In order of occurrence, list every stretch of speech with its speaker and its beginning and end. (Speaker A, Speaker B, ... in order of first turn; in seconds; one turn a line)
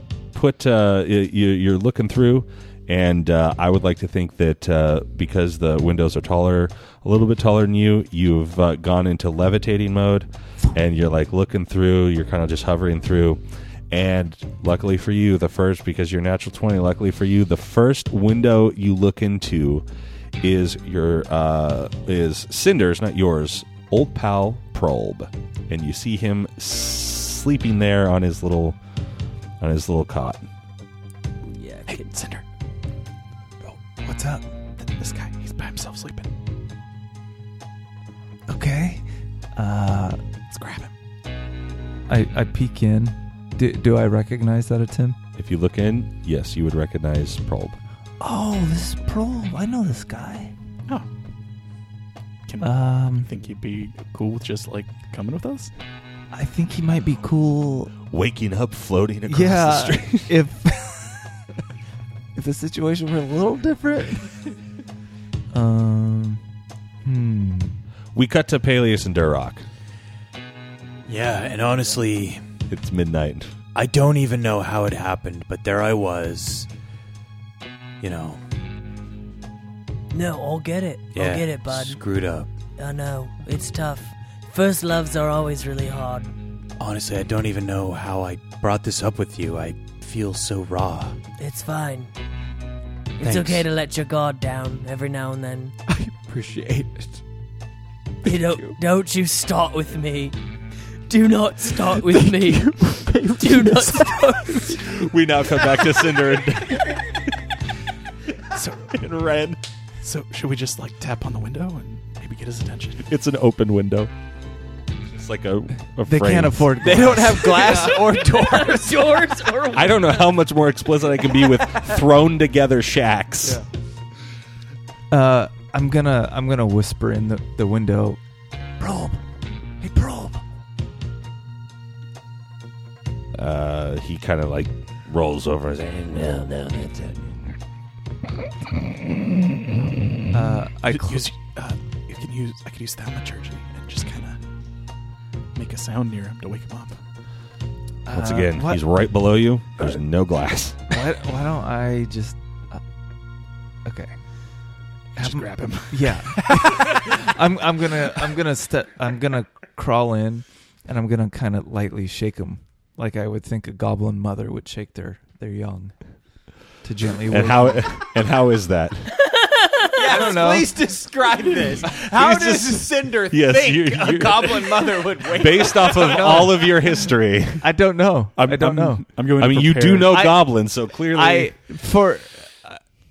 Speaker A: 0.3-19.9
Speaker A: 20.4-28.8
Speaker A: 29.6-30.5
Speaker B: 31.5-32.1
Speaker C: 31.9-32.4
Speaker D: 34.0-34.5
Speaker C: 34.8-36.3
Speaker D: 38.5-40.2
Speaker C: 40.5-40.9
Speaker D: 42.1-45.2
Speaker A: 45.4-47.8
Speaker D: 48.2-50.5
Speaker C: 52.5-55.7
Speaker D: 52.6-53.3
Speaker D: 56.3-57.9
Speaker A: 58.1-60.3
Speaker D: 59.3-61.5
Speaker D: 62.4-64.4
Speaker D: 65.5-66.4
Speaker D: 67.0-67.8
Speaker A: 68.1-69.6
Speaker E: 71.1-72.4
Speaker A: 72.7-73.5
Speaker E: 73.8-76.7
Speaker E: 78.0-78.4
Speaker B: 80.1-82.0
Speaker E: 81.1-82.5
Speaker B: 82.8-86.3
Speaker E: 86.8-91.2
Speaker B: 91.4-92.1
Speaker B: 93.2-95.7
Speaker E: 93.2-93.6
Speaker F: 95.9-97.2
Speaker B: 98.2-100.3
Speaker F: 98.3-98.8
Speaker B: 101.1-104.8
Speaker F: 102.6-104.7
Speaker A: 104.7-107.0
Speaker C: 108.5-113.1
Speaker A: 113.1-114.1
Speaker A: 115.1-117.3
Speaker D: 116.1-118.0
Speaker F: 116.8-119.3
Speaker B: 117.6-120.4
Speaker A: 119.7-123.6
Speaker D: 125.1-128.2
Speaker D: 128.8-129.2
Speaker D: 129.8-130.4
Speaker A: 133.3-137.2
Speaker D: 140.3-141.3
Speaker C: 140.9-144.4
Speaker C: 145.6-147.0
Speaker D: 148.1-148.8
Speaker A: 148.1-150.8
Speaker D: 150.9-152.8
Speaker D: 153.8-154.2
Speaker C: 155.2-157.2
Speaker D: 155.2-165.9
Speaker D: 166.8-167.9
Speaker A: 167.3-169.1
Speaker B: 169.2-170.0
Speaker F: 169.9-176.4
Speaker D: 170.1-170.7
Speaker E: 171.8-172.6
Speaker A: 171.9-177.7
Speaker D: 176.0-176.7
Speaker D: 177.6-179.1
Speaker C: 178.4-180.3
Speaker A: 179.4-181.5
Speaker D: 180.1-182.8